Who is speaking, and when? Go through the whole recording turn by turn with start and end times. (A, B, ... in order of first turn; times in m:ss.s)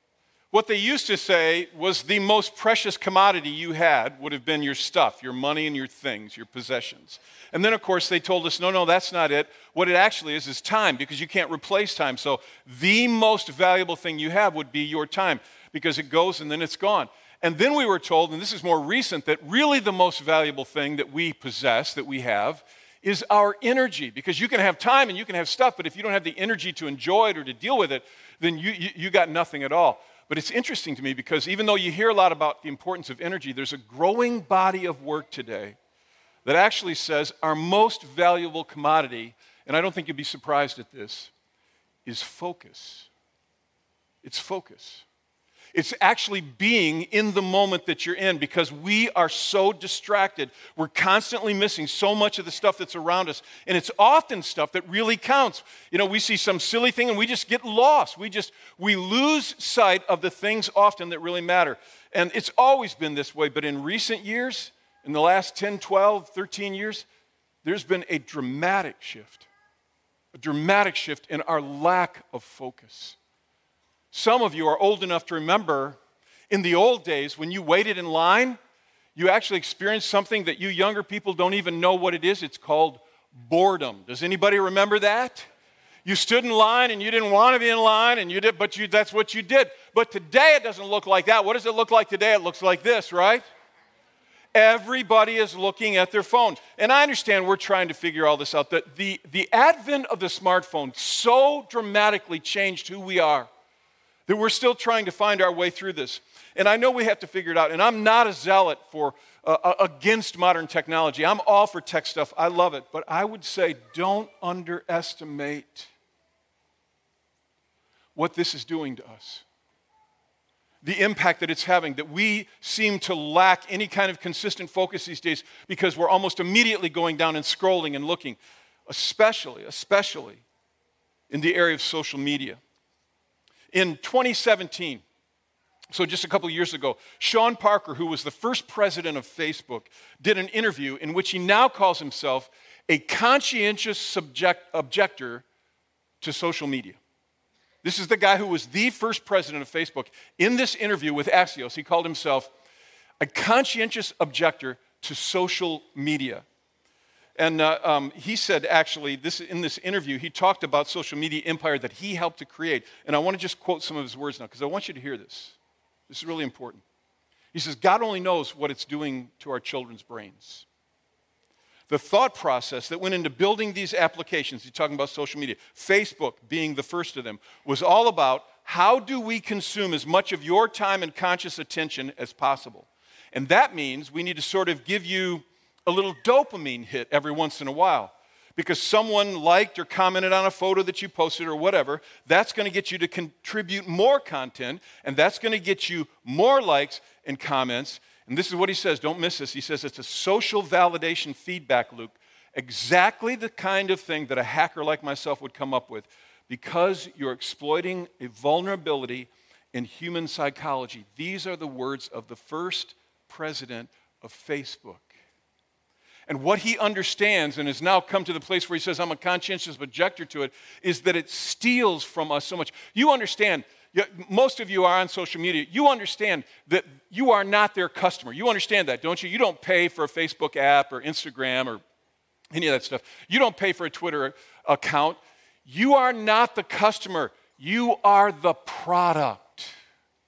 0:00.5-0:35.8 A
0:36.4-0:41.3 A
0:42.0-0:43.1 A
0:44.2-0:45.0 A
0:45.7-1:07.0 A
1:07.6-1:09.5 A
1:10.3-1:13.2 A
1:14.1-1:16.0 A
1:16.5-1:18.6 A
1:19.1-1:25.4 A
1:26.0-1:33.4 A
1:34.5-1:43.5 A
1:44.3-1:55.9 A
1:58.1-1:59.4 A
2:00.8-2:10.4 A
2:11.3-2:12.6 A
2:13.7-2:15.0 A
2:15.9-2:25.4 A
2:26.2-2:27.0 A
2:27.8-2:32.5 A
2:33.2-2:36.4 A
2:37.4-2:45.6 A
2:46.1-2:46.8 A
2:47.5-2:50.6 A
2:51.9-3:35.1 A
3:36.3-3:51.8 A
3:52.5-3:59.7 A